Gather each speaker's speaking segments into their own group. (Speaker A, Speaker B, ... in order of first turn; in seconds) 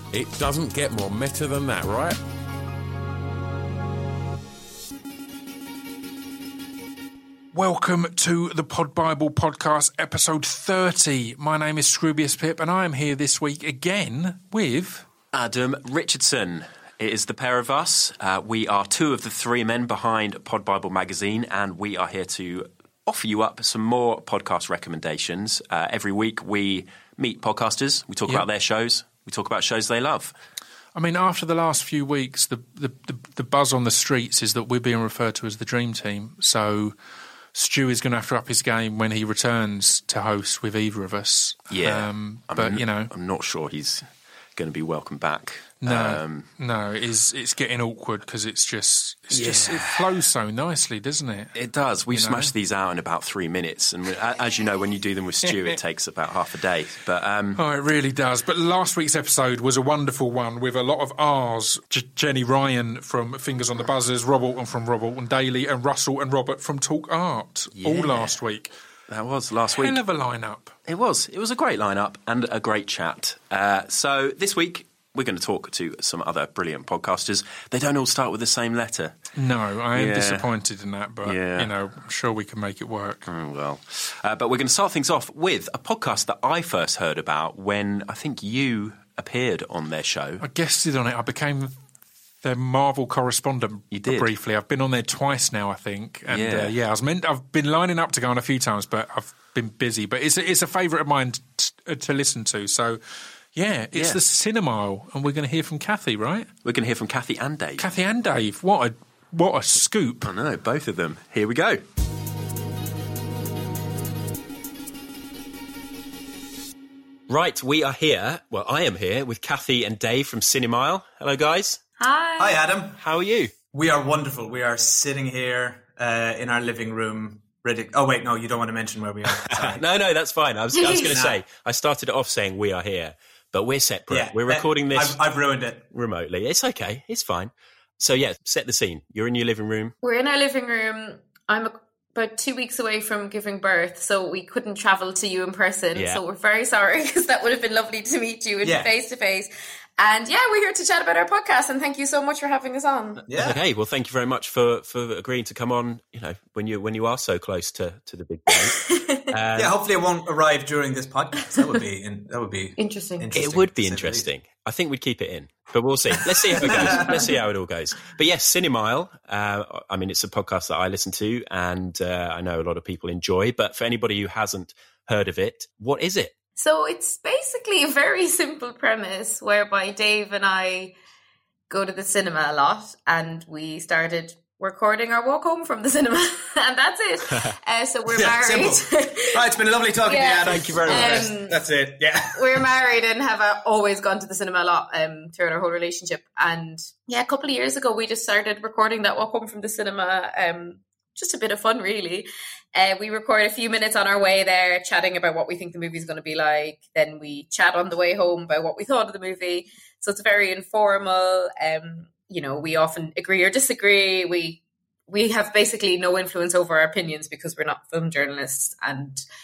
Speaker A: 0.1-2.2
Speaker B: 7.5-15.1, 30.9-36.9, 37.5-43.1, 45.8-51.5, 52.1-52.5, 57.6-68.7, 69.7-70.8, 79.3-83.2, 90.4-91.7, 92.4-103.0, 103.5-106.5, 107.8-110.3
Speaker C: 15.3-30.3, 41.7-44.0, 44.5-46.5, 49.3-50.1, 51.5-57.6, 67.8-68.3, 69.1-70.0, 70.9-79.2, 79.9-80.4, 81.2-81.7, 83.2-90.4, 93.9-94.3, 96.3-96.7, 106.6-107.9, 110.2-111.8, 117.3-121.8, 123.0-123.5, 129.4-135.2, 135.9-139.9, 145.9-146.2, 153.4-159.7, 163.3-176.3, 190.5-191.3
Speaker D: 122.0-122.6, 130.8-131.1, 140.0-153.2, 158.5-159.3, 162.8-163.3, 176.6-180.9, 181.7-189.4, 190.0-191.6, 192.3-219.2
Speaker E: 122.4-123.0, 123.7-129.8, 131.1-131.4, 134.1-135.8, 148.6-148.9, 153.3-153.6, 159.6-164.2, 166.4-167.2, 188.1-192.7